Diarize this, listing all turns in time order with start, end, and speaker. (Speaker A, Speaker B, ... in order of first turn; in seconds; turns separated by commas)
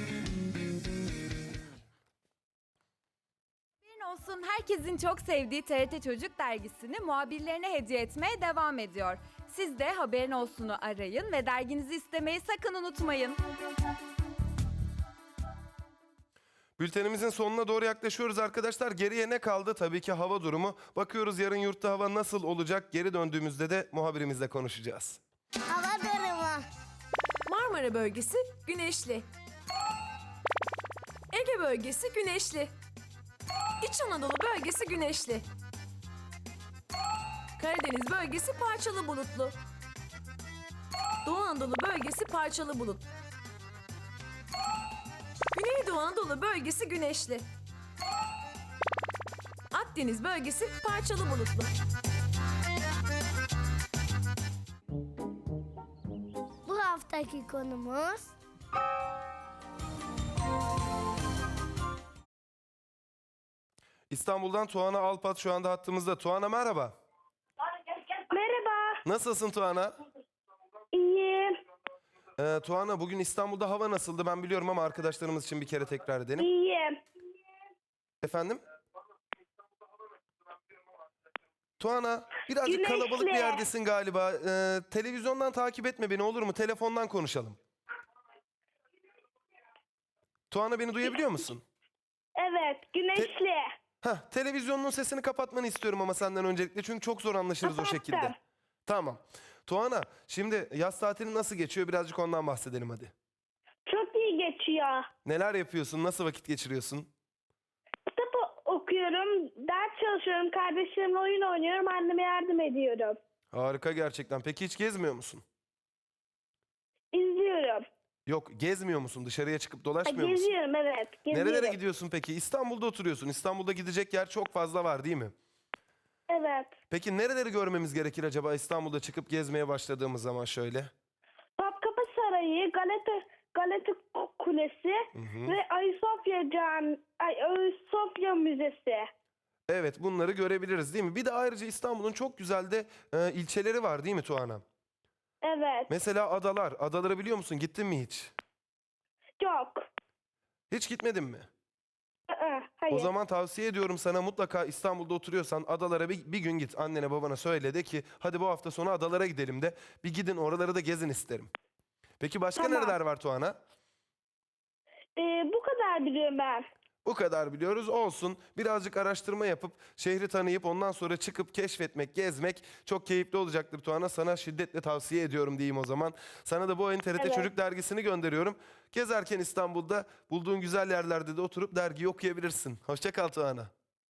Speaker A: 3.9-13.3, Speaker B: 16.8-25.2, Speaker C: 25.7-26.6, Speaker D: 27.5-29.2, Speaker D: 31.3-32.7, Speaker D: 33.8-35.5, Speaker D: 37.6-39.6, Speaker D: 41.2-43.0, Speaker D: 45.5-47.5, Speaker D: 49.7-51.7, Speaker C: 56.7-58.3, Speaker B: 64.1-67.0, Speaker E: 68.0-69.0, Speaker B: 69.0-69.9, Speaker E: 70.9-71.5, Speaker B: 72.4-76.5, Speaker E: 76.4-77.0, Speaker B: 78.2-78.6, Speaker B: 81.8-87.6, Speaker E: 82.6-83.7, Speaker B: 90.5-91.6, Speaker E: 92.4-93.6, Speaker B: 94.0-98.3, Speaker E: 97.6-98.3, Speaker B: 98.9-103.1, Speaker E: 103.9-105.1, Speaker B: 105.2-107.1, Speaker E: 108.1-113.2, Speaker B: 113.5-115.4, Speaker E: 117.1-117.8, Speaker B: 118.3-120.5, Speaker E: 120.0-121.8, Speaker B: 121.3-125.3, Speaker E: 126.3-126.7, Speaker B: 126.9-130.9, Speaker E: 131.6-139.1, Speaker B: 135.2-135.6, Speaker B: 139.7-144.6, Speaker E: 145.4-145.9, Speaker B: 145.9-148.3, Speaker E: 149.4-149.8, Speaker B: 150.7-151.5, Speaker E: 152.3-153.1, Speaker B: 152.9-161.5, Speaker B: 162.2-163.6, Speaker E: 162.6-163.0, Speaker E: 165.2-166.7, Speaker B: 167.1-183.7, Speaker E: 177.2-177.5